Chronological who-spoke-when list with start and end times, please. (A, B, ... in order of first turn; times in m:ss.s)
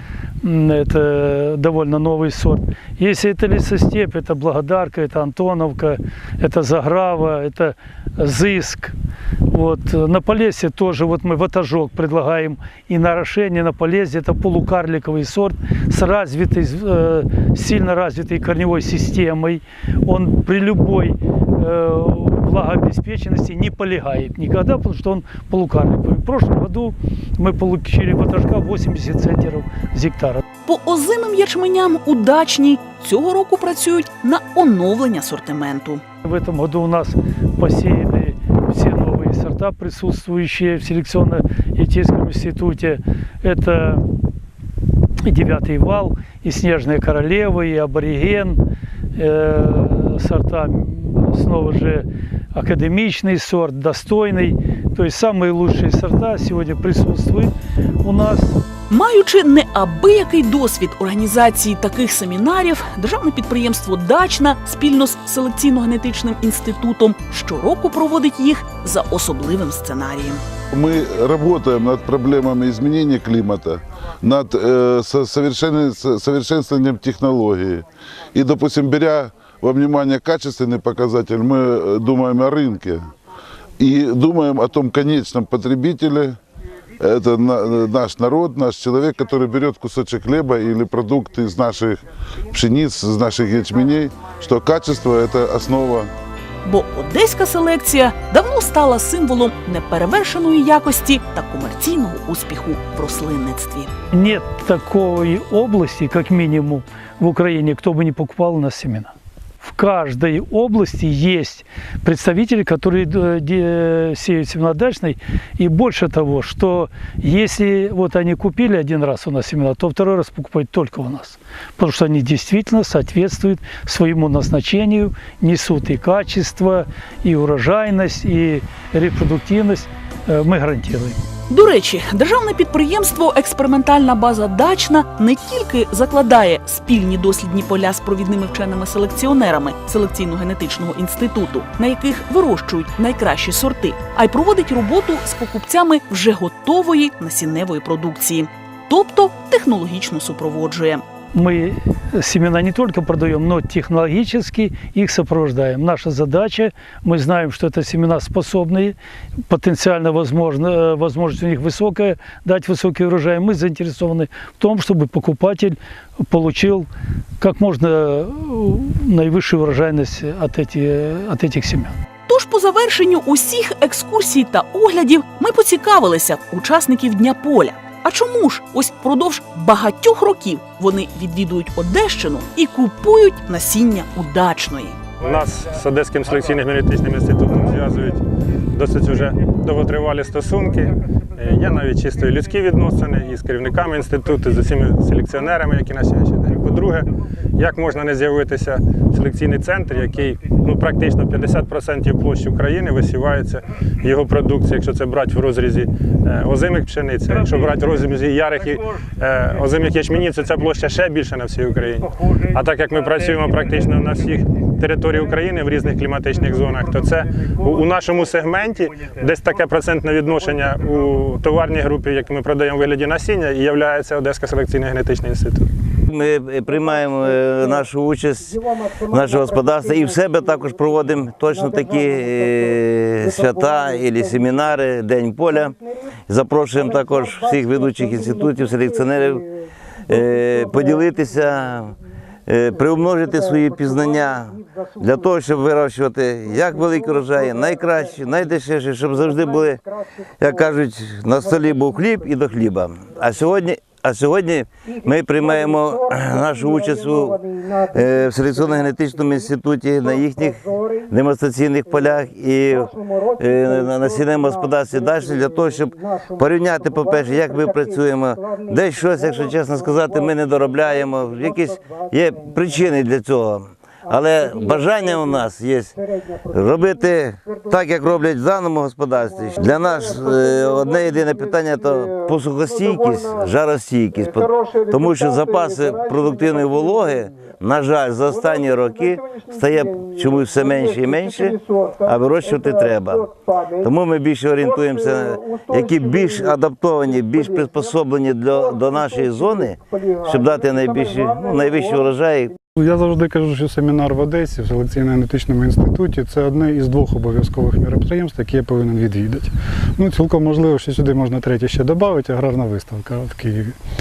0:00.4-0:09.0 A
0:09.5-0:30.4 A
0:30.6-0:36.0 B
0:36.2-0:44.0 A
0:45.2-0:48.6 A
0:49.2-0:58.6 A
0:58.9-1:10.4 B
1:10.7-1:23.0 C
1:23.8-1:26.4 C
1:27.0-1:36.1 C
1:36.6-1:43.9 B
1:44.1-2:11.2 A
2:11.5-2:31.0 B
2:31.3-2:39.0 A
2:39.5-2:46.9 A
2:47.4-2:51.9 A
2:52.3-3:05.0 B
3:05.2-3:08.2 D
3:08.7-3:45.7 D
3:46.1-3:55.8 E
3:56.3-3:59.4 E
4:00.1-4:01.9 E
4:02.5-4:09.8 E
4:10.4-4:36.0 E
4:36.5-4:53.3 E
4:53.8-5:02.5 E
5:02.8-5:13.8 F